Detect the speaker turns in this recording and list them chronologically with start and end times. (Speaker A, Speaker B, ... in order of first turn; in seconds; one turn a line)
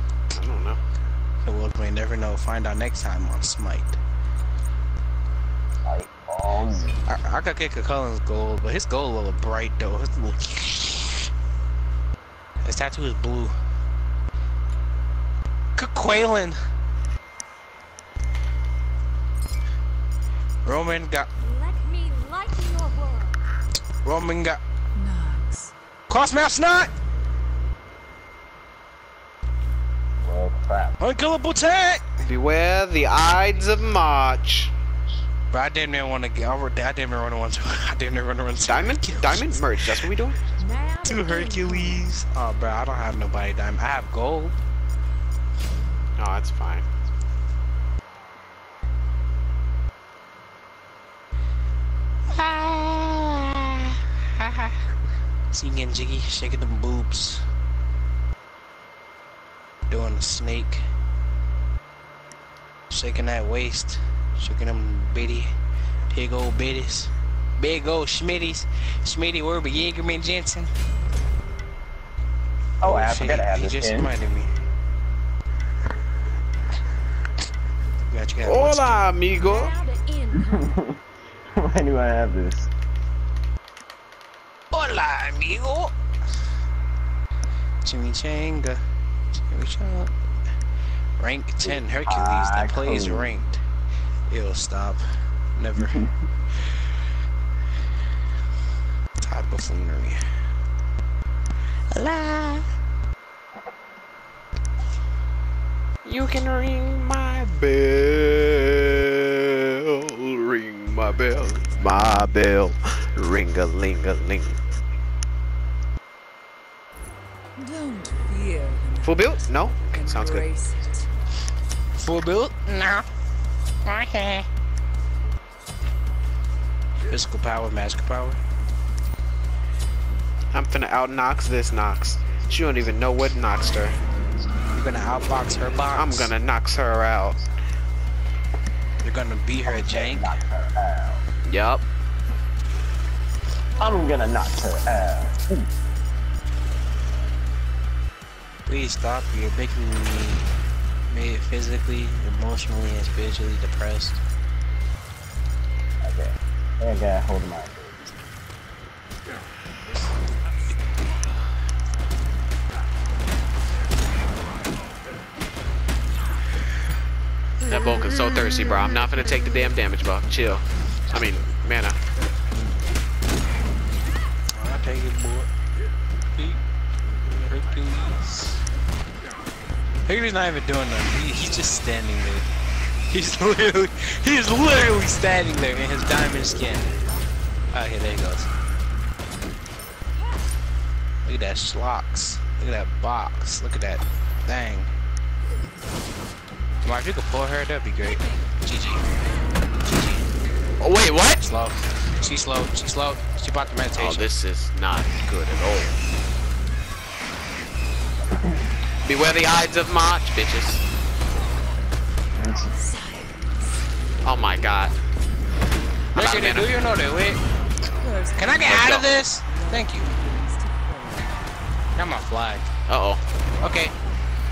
Speaker A: 0.3-0.8
Speaker B: 1.4-4.0
Speaker C: 5.8-7.0
Speaker B: 7.1-11.3
Speaker B: 12.6-13.6
Speaker B: 15.8-16.6
Speaker B: 20.6-21.3
Speaker D: 21.4-23.4
Speaker E: 21.8-23.1
Speaker B: 24.0-24.6
Speaker E: 25.0-25.7
Speaker B: 26.1-26.9
Speaker C: 30.2-31.0
Speaker B: 31.0-32.1
Speaker A: 32.2-34.7
Speaker B: 35.5-39.9
Speaker A: 38.7-40.4
Speaker E: 40.6-41.8
Speaker D: 40.7-41.6
Speaker B: 41.0-44.5
Speaker A: 46.2-46.9
Speaker B: 52.3-54.8
Speaker B: 55.5-57.4
Speaker B: 59.9-60.8
Speaker B: 62.9-65.5
Speaker B: 66.1-70.7
Speaker C: 72.8-74.1
Speaker B: 72.8-74.5
Speaker B: 78.1-79.2
Speaker A: 78.4-79.8
Speaker D: 79.4-80.6
Speaker E: 79.5-80.1
Speaker C: 80.3-81.0
Speaker C: 81.6-82.7
Speaker B: 84.7-85.9
Speaker B: 87.8-88.8
Speaker B: 89.4-90.1
Speaker B: 91.2-93.6
Speaker C: 91.7-93.3
Speaker B: 94.3-95.0
Speaker B: 95.5-96.0
Speaker B: 99.2-100.2
Speaker B: 101.9-102.7
Speaker A: 106.0-114.6
Speaker E: 117.6-119.3
Speaker A: 119.0-120.5
Speaker E: 119.9-121.1
Speaker B: 122.0-123.1
Speaker B: 123.8-124.5
Speaker B: 127.1-128.4
Speaker A: 130.5-134.0
Speaker B: 134.7-136.3
Speaker A: 135.9-137.4
Speaker B: 139.0-140.4
Speaker C: 139.7-141.2
Speaker A: 141.4-141.8
Speaker C: 143.8-145.7
Speaker B: 148.7-150.5
Speaker B: 151.1-154.2
Speaker C: 156.0-158.2
Speaker A: 167.7-172.0
Speaker B: 174.6-175.5
Speaker B: 176.3-176.6
Speaker B: 177.4-178.6
Speaker B: 180.1-182.5
Speaker B: 183.1-186.9
Speaker B: 187.7-188.5
Speaker B: 191.2-194.9
Speaker B: 196.8-199.1
Speaker B: 199.9-200.3
Speaker A: 200.8-201.4
Speaker B: 201.4-204.3
Speaker A: 203.9-206.0
Speaker A: 209.1-210.8
Speaker C: 212.4-212.7
Speaker E: 213.0-213.3
Speaker A: 214.2-215.0
Speaker A: 216.2-216.7
Speaker B: 216.2-217.4
Speaker E: 218.0-218.7
Speaker B: 218.3-220.1
Speaker A: 218.6-219.1
Speaker E: 219.4-221.3
Speaker B: 222.0-222.7
Speaker A: 222.9-223.2
Speaker B: 223.6-223.9